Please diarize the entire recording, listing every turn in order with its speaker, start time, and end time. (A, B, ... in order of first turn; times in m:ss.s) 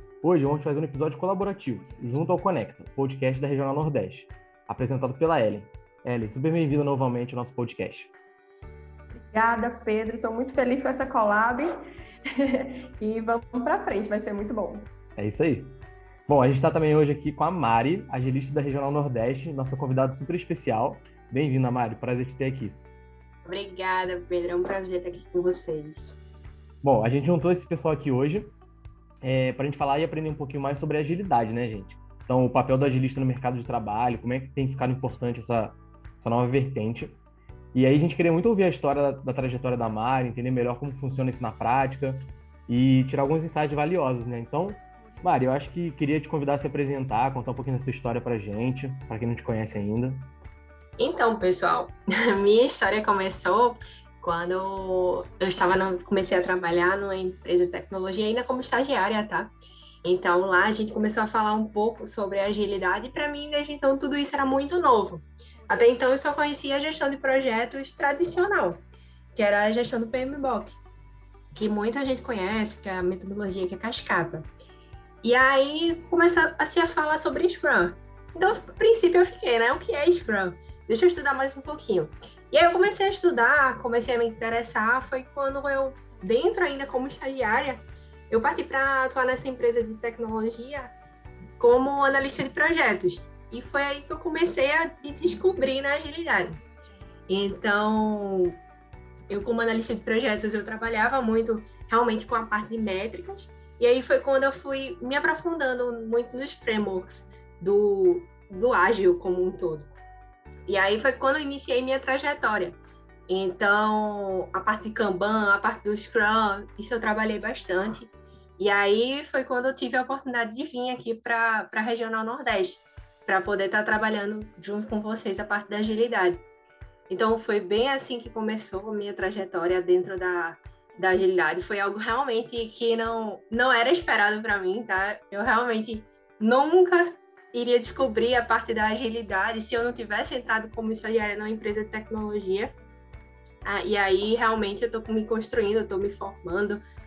0:00.2-0:08.1 A
0:09.3-0:11.7 B
0:12.3-0:14.9 B
0:15.2-0:15.7 A
0:16.3-0:22.8 A
0:23.4-0:26.2 C
0:26.8-0:28.5 A
0:29.2-0:37.2 A
0:37.7-0:50.2 A
0:51.0-0:59.5 C
1:00.0-1:10.8 C
1:11.5-1:14.5 C
1:15.2-1:30.9 C
1:31.6-1:36.6 C
1:37.3-1:38.6 C
1:39.3-1:49.9 C
1:50.7-2:06.4 C
2:07.1-2:22.8 C
2:23.6-2:26.8 C